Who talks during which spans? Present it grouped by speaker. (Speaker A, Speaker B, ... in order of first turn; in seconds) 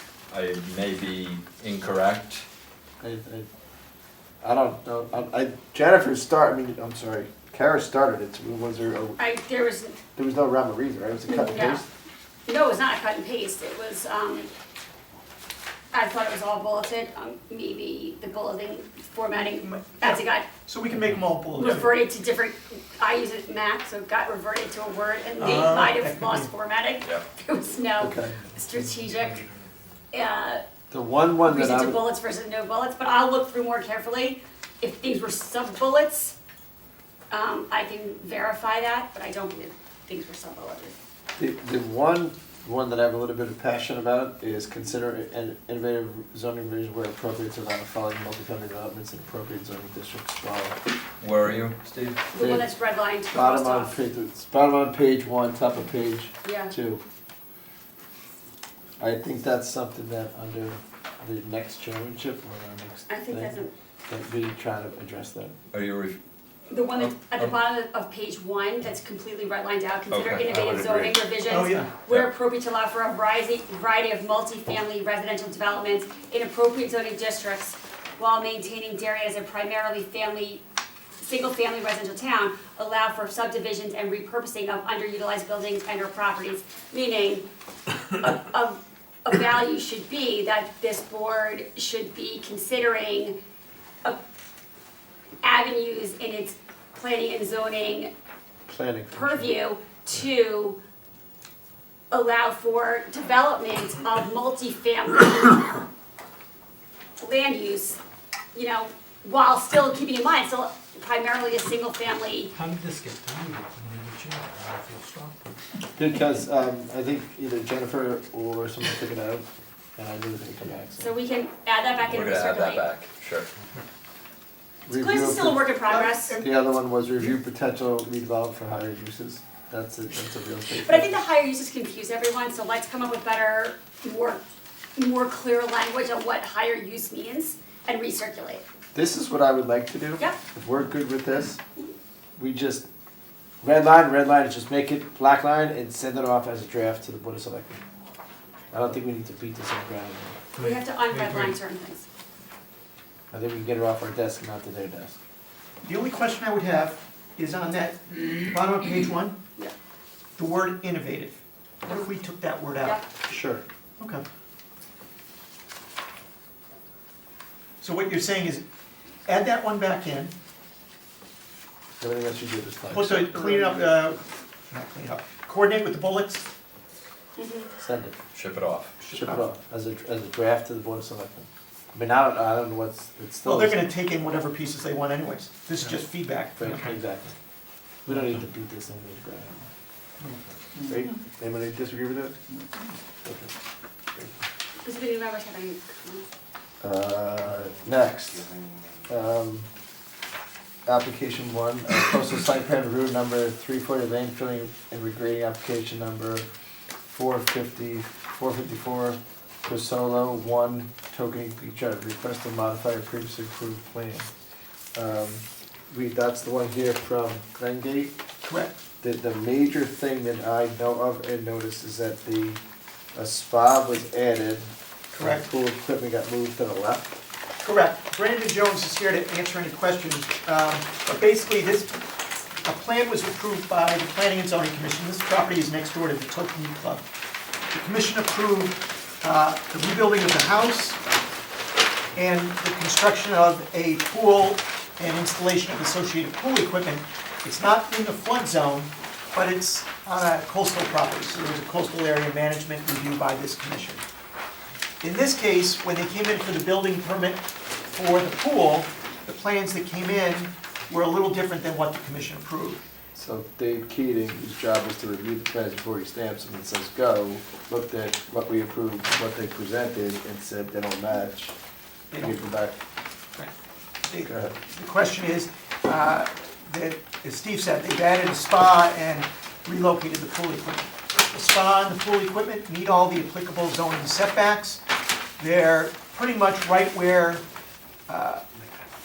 Speaker A: 0.3-2.4, 51.2-52.2, 65.7-66.2, 67.0-67.5, 70.1-71.2, 122.0-123.5, 178.3-178.9
Speaker B: 3.0-3.5, 4.4-9.2, 10.1-11.9, 28.0-28.3, 30.9-32.0, 41.4-50.8, 52.4-52.7, 53.3-57.0, 59.0-65.5, 98.7-99.5, 115.9-121.1, 124.8-125.7, 126.3-131.1, 138.9-141.6, 142.3-142.8, 143.6-147.8, 148.7-150.4, 153.3-155.2, 163.3-163.6, 172.0-173.8, 177.8-178.2, 179.1-183.8, 186.6-187.3, 188.1-189.7, 190.8-192.4, 193.2-193.5, 196.8-198.5, 199.1-199.7, 200.8-206.5, 207.1-214.3, 214.9-218.2, 219.0-222.6, 223.1-227.2, 263.1-271.6, 272.2-272.8, 274.2-274.5
Speaker C: 9.2-10.0, 11.3-11.8, 12.5-14.5, 15.9-20.5, 21.6-29.4, 30.1-30.6, 31.4-36.3, 37.3-40.9, 52.3-53.9, 56.4-56.7, 63.1-63.7, 66.7-80.6, 81.2-87.5, 88.2-93.4, 95.4-98.1, 99.1-100.8, 102.1-105.8, 107.2-108.0, 108.5-112.5, 121.0-122.9, 124.9-126.4, 130.8-134.4, 134.9-138.6, 150.6-152.0, 177.4-177.7, 194.8-196.2
Speaker D: 19.6-21.9, 25.4-26.5, 71.4-71.9, 125.8-126.4, 155.8-159.4, 160.4-163.0, 164.0-164.2, 167.8-168.7, 169.2-170.3, 172.9-176.4, 179.0-179.4, 183.4-186.9, 218.4-218.8, 225.2-225.4, 227.6-231.9, 232.6-237.0, 237.7-241.0, 242.1-254.0, 255.0-262.8, 272.1-272.4, 274.1-284.8, 285.4-287.4, 288.1-288.4
Speaker E: 112.5-115.5, 150.5-151.5, 190.2-190.9, 192.5-192.8